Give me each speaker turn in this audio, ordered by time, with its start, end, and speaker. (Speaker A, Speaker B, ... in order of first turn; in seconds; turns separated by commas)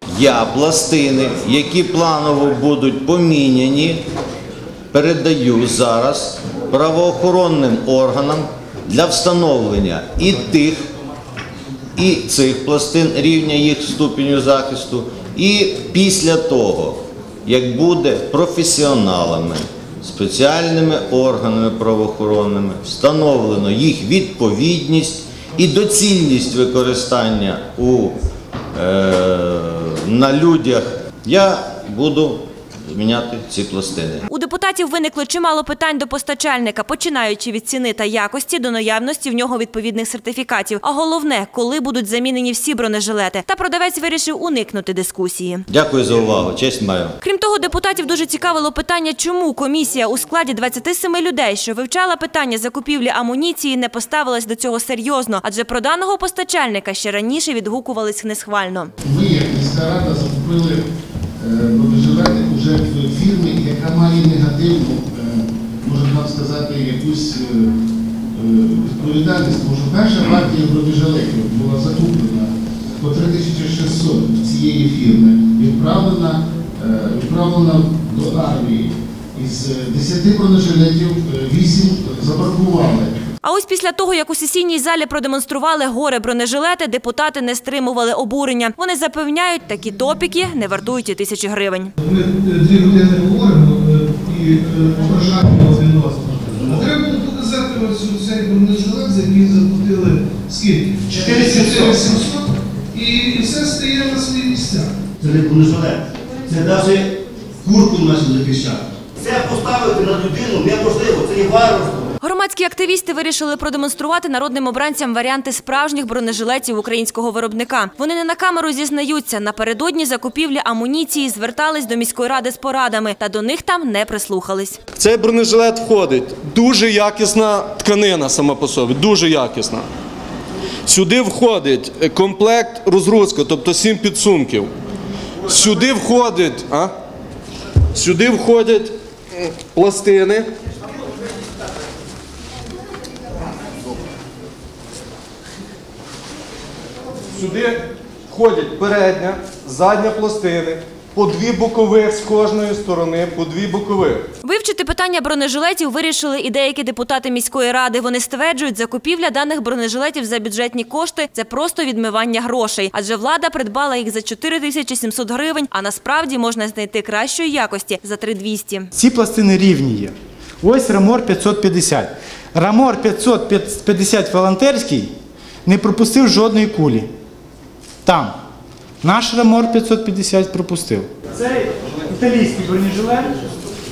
Speaker A: 0.1-4.0, Speaker A: 4.9-10.8, Speaker A: 12.0-28.2, Speaker A: 28.8-34.3, Speaker B: 34.3-45.7, Speaker A: 45.7-47.2, Speaker B: 47.2-58.9, Speaker C: 59.0-60.9, Speaker C: 61.4-67.8, Speaker C: 68.3-83.2, Speaker B: 83.4-91.9, Speaker D: 92.0-105.0, Speaker E: 96.6-96.8, Speaker E: 101.1-102.2, Speaker E: 105.2-112.1, Speaker B: 112.2-124.8, Speaker F: 125.0-129.9, Speaker F: 130.9-134.7, Speaker F: 135.5-136.9, Speaker F: 137.9-140.5, Speaker F: 147.3-154.2, Speaker B: 154.4-168.9, Speaker G: 168.9-175.1, Speaker G: 175.7-177.1, Speaker G: 178.1-178.3, Speaker G: 179.0-183.4